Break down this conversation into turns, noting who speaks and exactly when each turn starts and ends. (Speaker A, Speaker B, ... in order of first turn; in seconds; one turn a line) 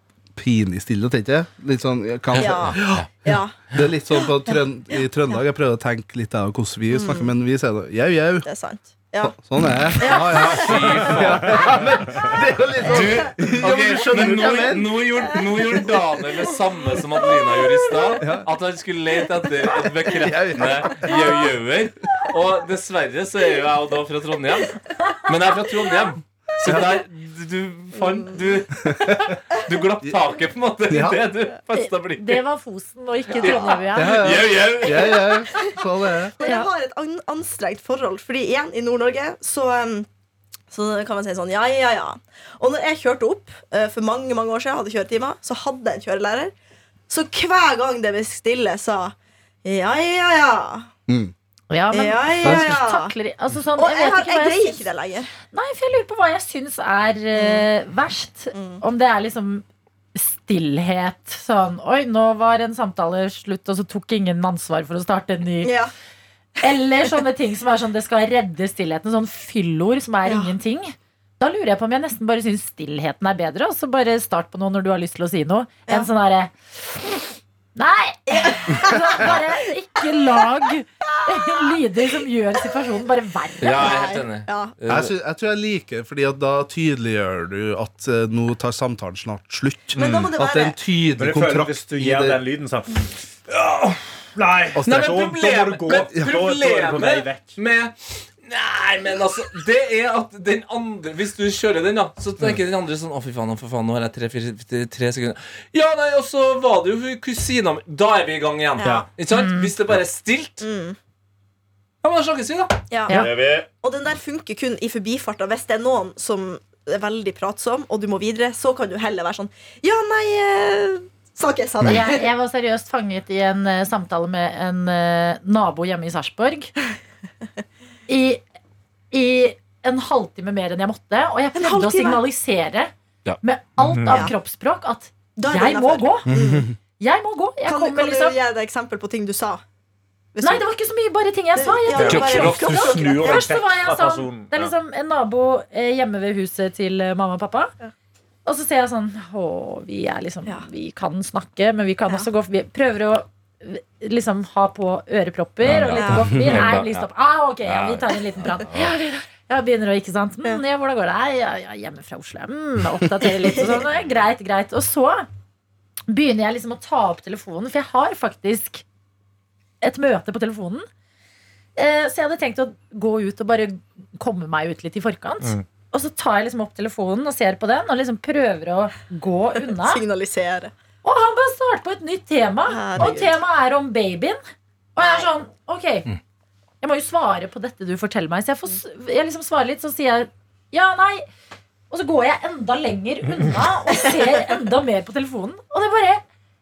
Speaker A: 0.4-3.1
Speaker B: 2.3-3.1
Speaker C: 2.4-3.6
Speaker A: 3.7-8.5
Speaker C: 6.9-7.3
Speaker C: 8.4-9.4
Speaker A: 9.2-15.1
Speaker C: 9.9-11.6
Speaker B: 10.0-11.8
Speaker C: 12.2-13.6
Speaker B: 12.8-32.4
Speaker C: 15.2-15.9
Speaker C: 17.2-18.2
Speaker A: 18.2-18.5
Speaker A: 20.1-21.2
Speaker C: 21.1-21.4
Speaker C: 27.9-28.3
Speaker A: 28.9-29.3
Speaker A: 30.9-31.2
Speaker D: 31.8-34.3
Speaker C: 33.4-33.8
Speaker B: 33.4-35.3
Speaker A: 34.0-36.4
Speaker C: 34.9-35.8
Speaker C: 36.3-40.1
Speaker D: 36.4-36.7
Speaker C: 40.7-46.5
Speaker C: 47.1-50.9
Speaker A: 51.1-51.3
Speaker D: 51.7-54.9
Speaker C: 51.9-53.1
Speaker A: 52.4-52.8
Speaker C: 53.8-55.3
Speaker D: 55.5-59.6
Speaker C: 57.4-57.6
Speaker C: 58.5-58.8
Speaker D: 60.1-65.7
Speaker C: 65.6-65.9
Speaker D: 66.6-77.2
Speaker C: 70.2-70.5
Speaker D: 77.8-83.9
Speaker C: 78.3-79.5
Speaker C: 83.6-84.7
Speaker B: 83.6-85.1
Speaker A: 84.9-92.4
Speaker C: 90.0-90.8
Speaker E: 91.2-97.6
Speaker A: 94.8-95.2
Speaker B: 94.8-110.7
Speaker C: 108.8-109.1
Speaker D: 109.3-109.7
Speaker C: 110.6-111.0
Speaker B: 112.0-112.8
Speaker C: 112.9-122.2
Speaker E: 113.1-113.7
Speaker D: 121.8-126.7
Speaker D: 128.1-128.4
Speaker D: 129.1-136.3
Speaker C: 131.6-132.2
Speaker E: 133.8-134.3
Speaker C: 135.4-136.7
Speaker A: 136.3-136.7
Speaker D: 137.0-138.4
Speaker C: 137.7-139.6
Speaker C: 140.3-140.7
Speaker D: 140.4-147.7
Speaker C: 141.6-143.6
Speaker E: 141.9-144.7
Speaker B: 142.0-142.8
Speaker D: 148.5-165.3
Speaker B: 155.7-157.1
Speaker C: 155.9-156.4
Speaker B: 157.7-158.9
Speaker C: 158.4-158.6
Speaker C: 163.2-163.9
Speaker D: 166.1-168.8
Speaker D: 169.8-170.9
Speaker D: 171.8-180.0
Speaker C: 179.7-180.7
Speaker D: 181.0-184.4
Speaker C: 182.7-183.4
Speaker D: 185.0-186.1
Speaker C: 185.0-185.3
Speaker D: 186.8-191.3
Speaker D: 191.9-196.2
Speaker C: 193.9-194.3